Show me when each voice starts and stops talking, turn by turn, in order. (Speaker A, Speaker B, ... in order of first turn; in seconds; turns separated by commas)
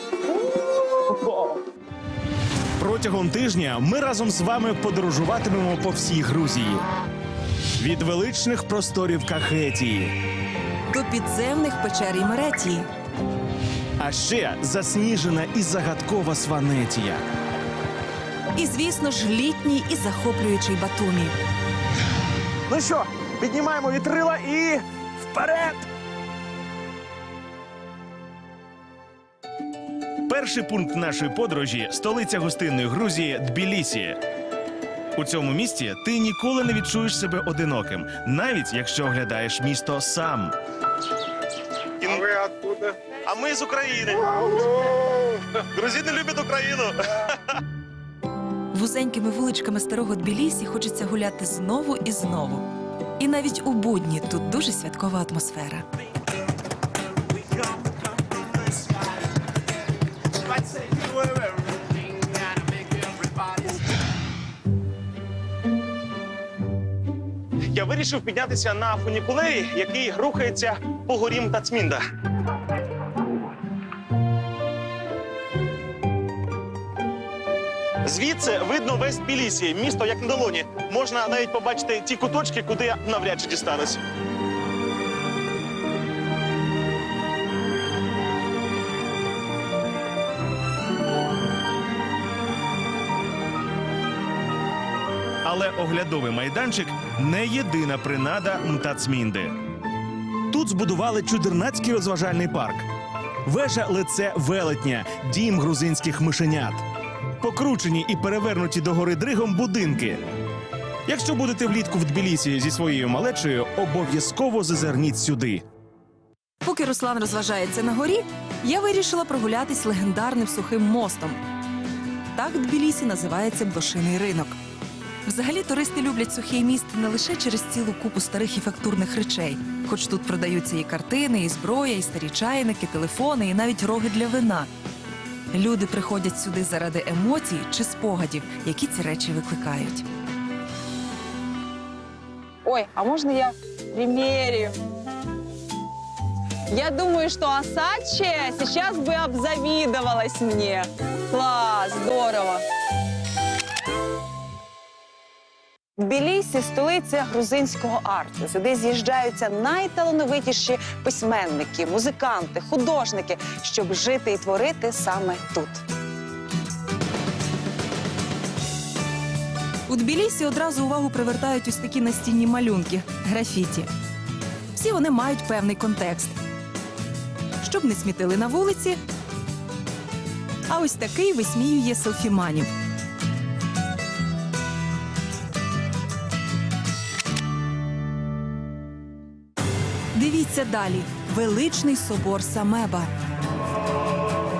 Speaker A: 0.6-1.6, Speaker A: 2.8-6.8, Speaker A: 7.8-10.2, Speaker B: 10.9-12.9, Speaker A: 14.0-17.2, Speaker B: 18.5-21.4, Speaker A: 22.7-25.9, Speaker A: 30.3-34.2, Speaker A: 35.1-40.5, Speaker A: 42.0-44.6, Speaker A: 45.5-47.4, Speaker B: 48.7-52.6, Speaker B: 53.2-55.8, Speaker A: 60.6-61.6, Speaker A: 67.7-72.0, Speaker A: 78.0-84.0, Speaker A: 95.4-99.5, Speaker A: 100.5-102.9, Speaker A: 103.4-106.8, Speaker A: 107.4-110.2, Speaker A: 111.0-115.6, Speaker B: 116.6-121.4, Speaker B: 122.3-124.6, Speaker B: 125.2-134.7, Speaker B: 135.5-140.1, Speaker C: 142.6-144.8, Speaker C: 146.7-152.6, Speaker C: 156.0-165.8, Speaker B: 169.9-173.9, Speaker B: 174.7-176.4, Speaker B: 177.6-179.0, Speaker B: 180.7-182.7, Speaker B: 190.1-193.1